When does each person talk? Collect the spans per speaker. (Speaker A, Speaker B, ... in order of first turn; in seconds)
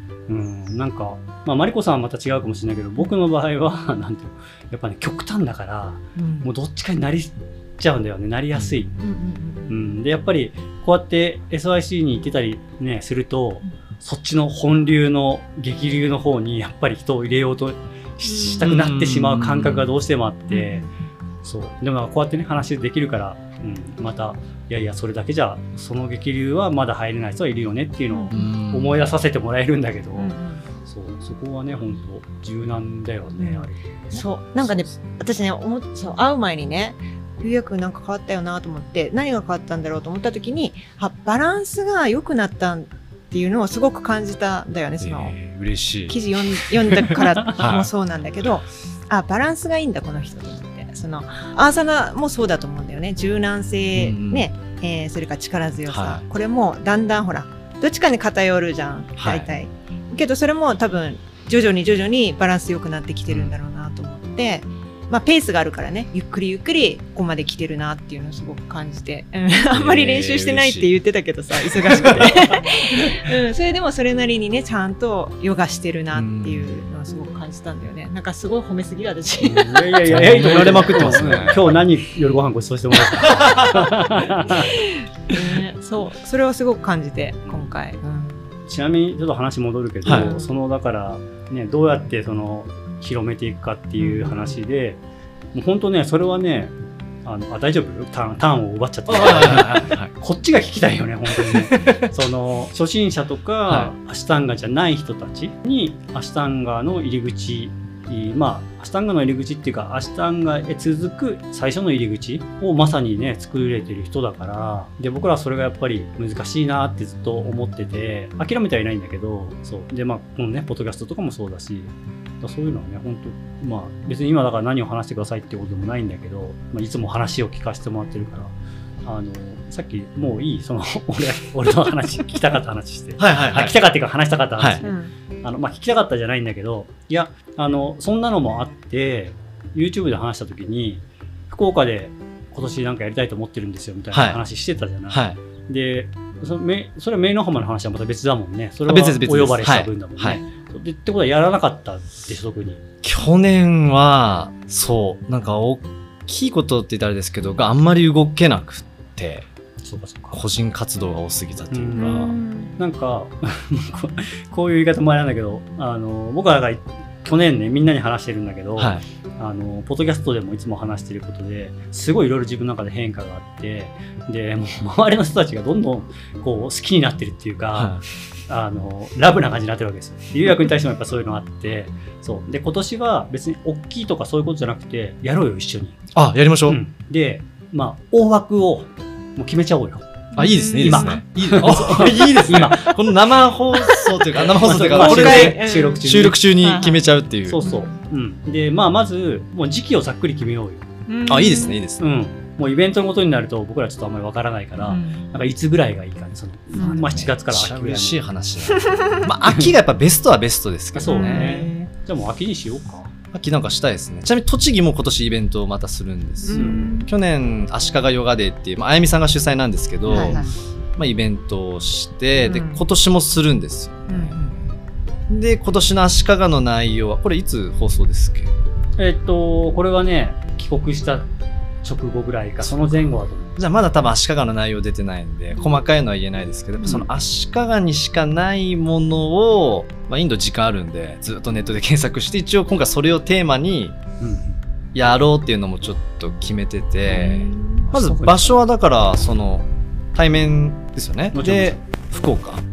Speaker A: 0.3-8.9, 9.7-20.9, 21.4-34.2, 79.4-84.7, 87.4-87.8, 88.7-95.0, 95.5-96.7, 97.2-128.5, 129.0-152.8, 159.8-160.4, 161.7-162.2, 162.8-186.0, 186.7-190.1, 190.8-192.9, 194.3-196.4, 197.4-200.9, 202.0-208.2, 209.4-209.7, 210.9-213.1, 216.5-216.9, 220.1-220.5, 229.0-231.3, 231.8-233.6, 236.8-237.1, 244.2-244.6, 247.1-248.6, 251.3-251.8
Speaker B: 6.2-6.5, 9.0-9.7, 18.2-18.6, 20.5-21.1, 30.1-30.7, 33.4-45.4, 46.0-81.5, 84.5-88.5, 90.1-90.5, 94.0-94.5, 134.8-135.1, 161.9-162.7, 190.3-191.2, 193.7-194.1, 194.7-196.1, 196.6-197.0, 197.6-197.9, 201.1-201.8, 204.8-205.3, 206.8-207.2, 208.7-209.0, 211.1-211.9, 216.4-217.1, 220.1-220.5, 222.4-222.8, 224.1-224.7
Speaker C: 18.6-19.9, 28.3-29.1, 45.0-46.2, 46.9-47.9, 53.9-54.5, 55.9-56.2, 59.2-59.5, 69.7-70.9, 71.7-73.1, 76.1-76.8, 80.0-81.8, 90.0-90.3, 99.1-100.1, 101.5-102.1, 103.7-103.9, 133.2-133.8, 144.1-144.4, 145.1-145.4, 148.9-150.4, 153.0-159.5, 160.3-162.3, 168.8-169.0, 177.7-178.0, 186.1-186.8, 190.3-197.6, 201.2-202.0, 206.8-211.6, 213.3-224.3, 225.3-228.5, 232.6-243.9, 244.9-252.6